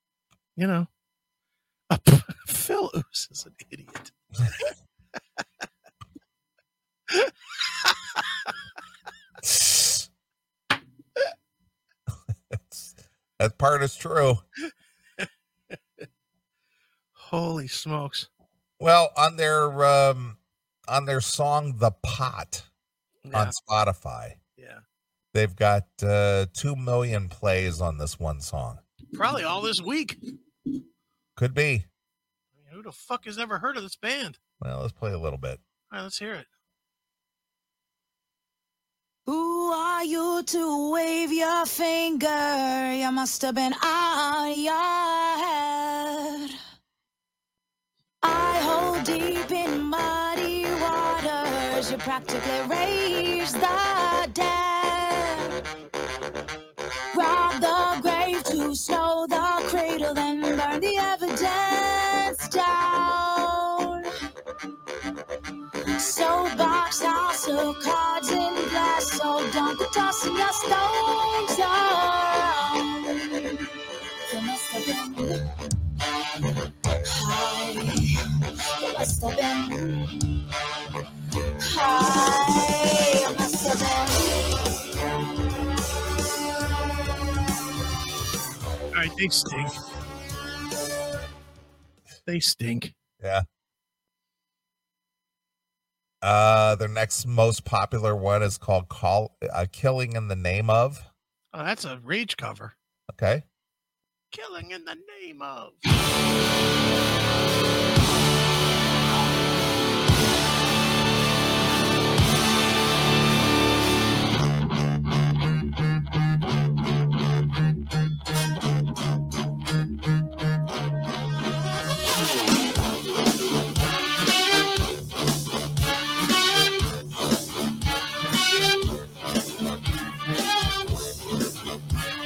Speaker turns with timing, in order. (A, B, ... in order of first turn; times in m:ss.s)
0:00.6-0:00.9 A
0:01.9-0:04.7 A
0:07.1-0:08.5 A
0:09.4-0:10.1 B
0:12.5-0:14.4 B
0:17.2-0:18.3 A
0:18.8-0:22.7 B
0:23.2-0:23.6 A
0:23.3-0:24.4 B
0:24.6-0:24.8 A
0:25.3-0:28.8 B
0:29.1-0:30.2 A
0:31.4-0:31.9 B
0:32.6-0:34.4 A
0:34.6-0:35.6 B
0:35.9-0:36.5 A
0:39.3-0:46.6 C
0:48.2-0:55.6 C
0:57.1-1:04.1 C
1:06.0-1:13.7 C
1:14.3-1:15.5 C
1:17.1-1:18.1 C
1:18.8-1:20.2 C
1:21.6-1:24.6 C
1:28.9-1:29.8 A
1:32.3-1:33.0 A
1:36.2-1:41.0 B
1:41.5-1:42.7 A
1:43.1-1:43.4 B
1:44.3-1:45.8 A